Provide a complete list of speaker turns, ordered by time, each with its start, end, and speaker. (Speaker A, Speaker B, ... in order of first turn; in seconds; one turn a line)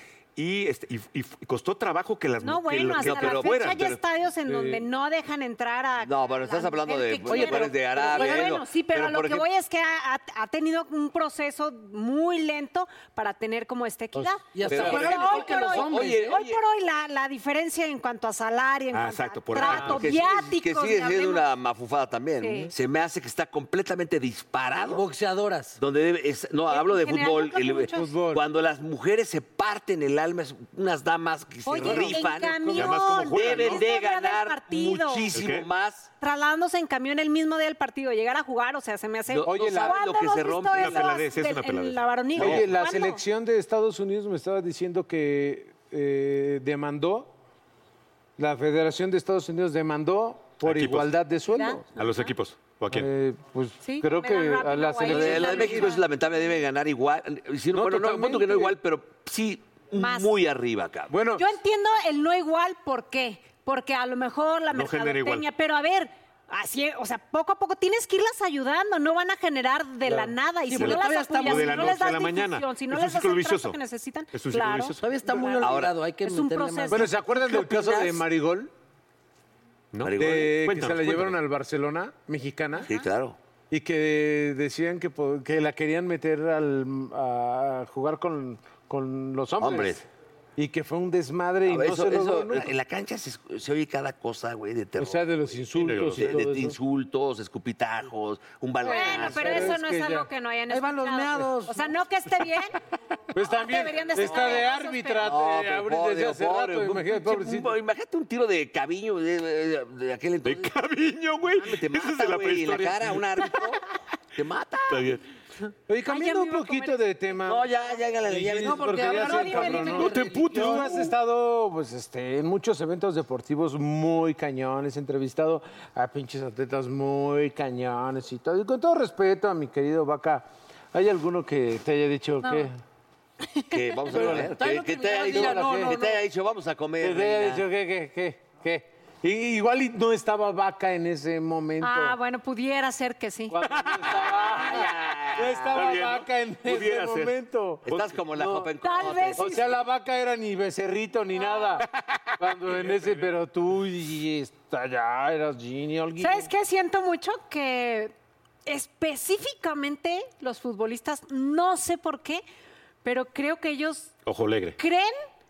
Speaker A: 0.3-4.0
Speaker B: 2.4-21.5
Speaker C: 3.0-4.0
Speaker D: 4.5-4.9
Speaker C: 6.0-9.5
Speaker E: 7.2-8.6
Speaker E: 14.2-16.3
Speaker C: 14.7-16.6
Speaker A: 18.9-20.1
Speaker C: 19.6-25.0
Speaker B: 22.4-22.7
Speaker E: 24.9-25.8
Speaker C: 25.8-32.7
Speaker B: 26.6-28.1
Speaker D: 27.9-28.4
Speaker B: 31.6-35.4
Speaker D: 31.8-32.9
Speaker A: 32.7-33.9
Speaker C: 33.3-36.1
Speaker A: 35.3-35.7
Speaker B: 36.2-43.2
Speaker C: 39.3-41.1
Speaker D: 39.4-40.0
Speaker A: 40.7-42.7
Speaker D: 42.4-47.3
Speaker D: 48.4-51.8
Speaker A: 50.6-51.1
Speaker B: 51.5-52.3
Speaker A: 52.0-53.1
Speaker D: 52.9-55.9
Speaker B: 53.8-56.0
Speaker C: 55.0-61.1
Speaker D: 57.7-58.8
Speaker B: 59.9-60.3
Speaker D: 61.1-61.5
Speaker B: 61.3-77.1
Speaker A: 64.7-65.5
Speaker E: 70.7-72.1
Speaker A: 70.7-73.8
Speaker A: 74.3-75.0
Speaker E: 75.0-78.2
Speaker C: 75.6-75.9
Speaker D: 76.9-78.7
Speaker A: 79.9-81.4
Speaker C: 80.0-80.5
Speaker D: 80.1-82.9
Speaker C: 82.8-83.4
Speaker D: 83.7-90.0
Speaker C: 89.6-90.0
Speaker D: 90.6-92.7
Speaker C: 91.7-95.3
Speaker D: 95.0-96.8
Speaker A: 95.8-96.4
Speaker C: 96.1-99.8
Speaker B: 98.8-102.7
Speaker D: 98.8-100.3
Speaker E: 100.7-101.9
Speaker D: 103.3-107.7
Speaker B: 103.4-105.3
Speaker C: 105.2-110.7
Speaker A: 110.4-113.6
Speaker C: 111.5-113.8
Speaker C: 114.3-115.0
Speaker A: 114.9-115.2
Speaker D: 115.9-117.7
Speaker B: 116.0-117.3
Speaker C: 117.5-119.8
Speaker D: 118.2-132.7
Speaker E: 118.7-121.0
Speaker B: 119.1-120.7
Speaker A: 120.0-120.9
Speaker B: 132.4-132.7
Speaker B: 133.4-134.2
Speaker C: 133.7-137.7
Speaker D: 134.1-134.6
Speaker E: 134.3-136.2
Speaker D: 135.3-136.1
Speaker D: 137.0-142.2
Speaker B: 141.8-143.6
Speaker D: 143.5-148.7
Speaker C: 144.1-145.9
Speaker A: 145.7-147.3
Speaker C: 147.8-149.6
Speaker A: 147.9-148.1
Speaker B: 148.8-149.7
Speaker D: 149.3-151.9
Speaker B: 151.3-151.8
Speaker D: 152.4-156.5
Speaker B: 156.2-158.1
Speaker B: 158.7-162.4
Speaker B: 163.0-164.1
Speaker A: 164.2-164.8
Speaker B: 164.8-165.1